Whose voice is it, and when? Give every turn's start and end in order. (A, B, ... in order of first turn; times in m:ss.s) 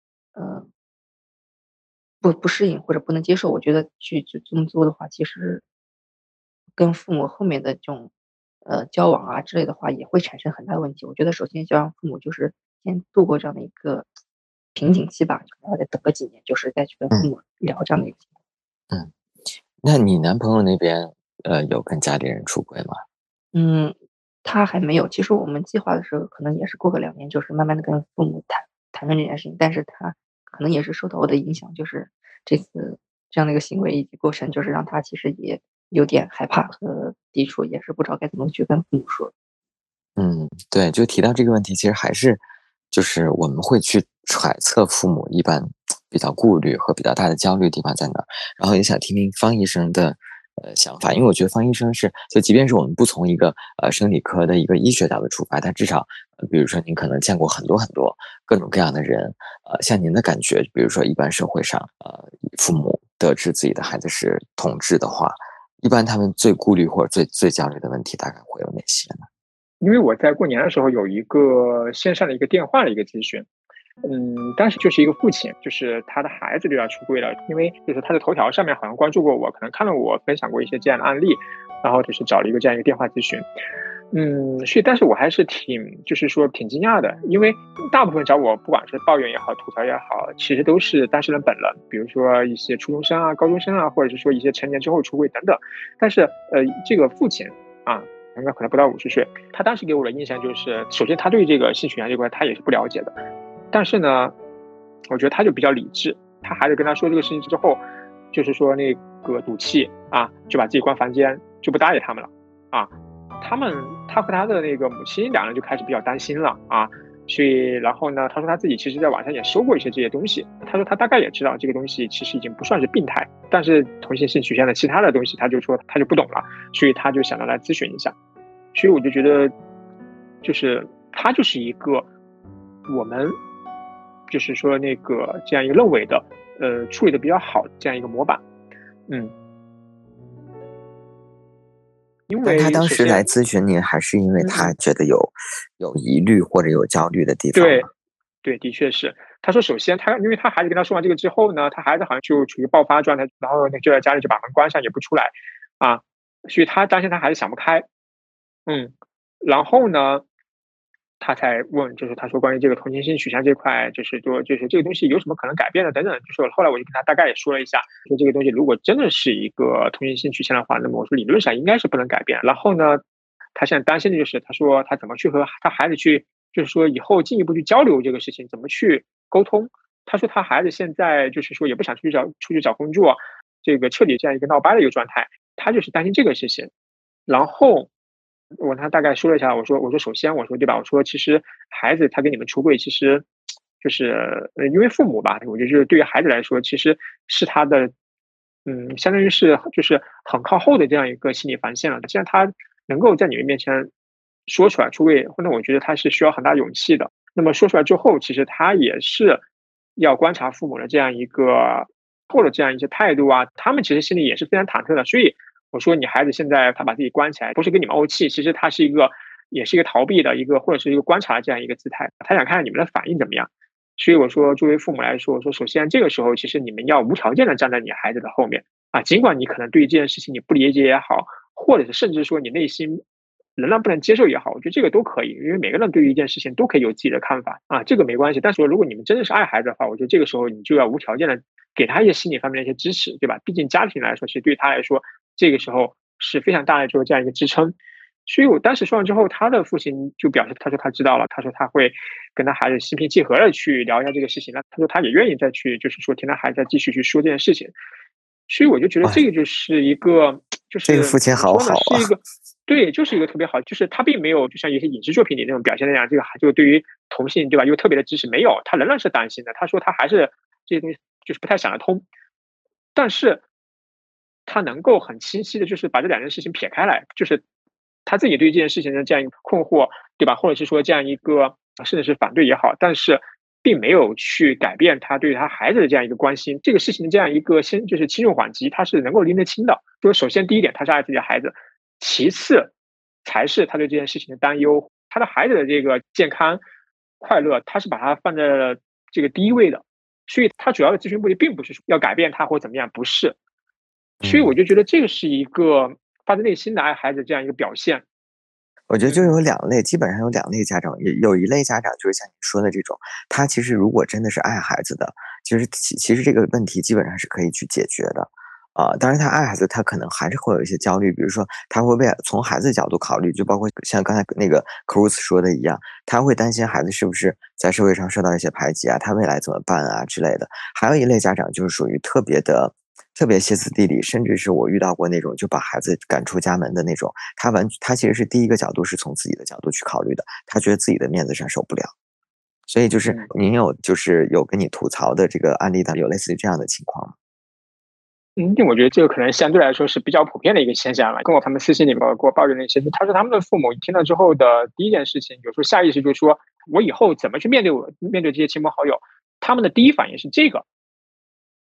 0:00.4-0:00.7 A
0:02.2-0:05.6 A
0:06.8-0:08.1 A
0:08.6-0:14.1 A
0:14.7-0:18.3 A
0:19.8-0:23.0 B
0:23.5-0:39.3 A
0:40.2-1:09.3 B
1:09.8-1:13.5 C
1:14.0-1:23.5 C
1:24.1-1:43.2 C
1:43.7-1:44.3 C
1:45.1-1:47.8 C
1:48.3-2:08.1 C
2:08.7-2:09.5 C
2:10.4-2:12.1 C
2:12.9-2:13.4 C
2:14.3-2:18.4 C
2:22.3-2:23.3 C
2:22.4-2:27.9 B
2:24.4-2:24.8 C
2:27.5-2:27.9 C
2:28.4-2:37.8 C
2:38.7-2:40.2 C
2:41.2-2:53.0 C
2:53.5-3:06.7 C
3:07.3-3:07.9 C
3:08.6-3:13.2 C
3:13.8-3:17.9 C
3:18.6-3:23.9 C
3:24.5-3:29.4 C
3:30.0-3:53.0 C
3:53.6-4:17.7 C
4:18.5-4:32.0 C
4:20.8-4:22.1 B
4:32.9-4:33.4 C
4:34.5-4:37.4 C
4:38.0-4:52.7 C
4:53.2-4:56.6 C
4:57.2-5:03.4 C
5:04.2-5:04.5 B
5:04.2-5:08.0 C
5:08.9-5:41.9 B
5:09.0-5:09.4 C
5:42.7-5:47.1 B
5:48.4-6:00.6 C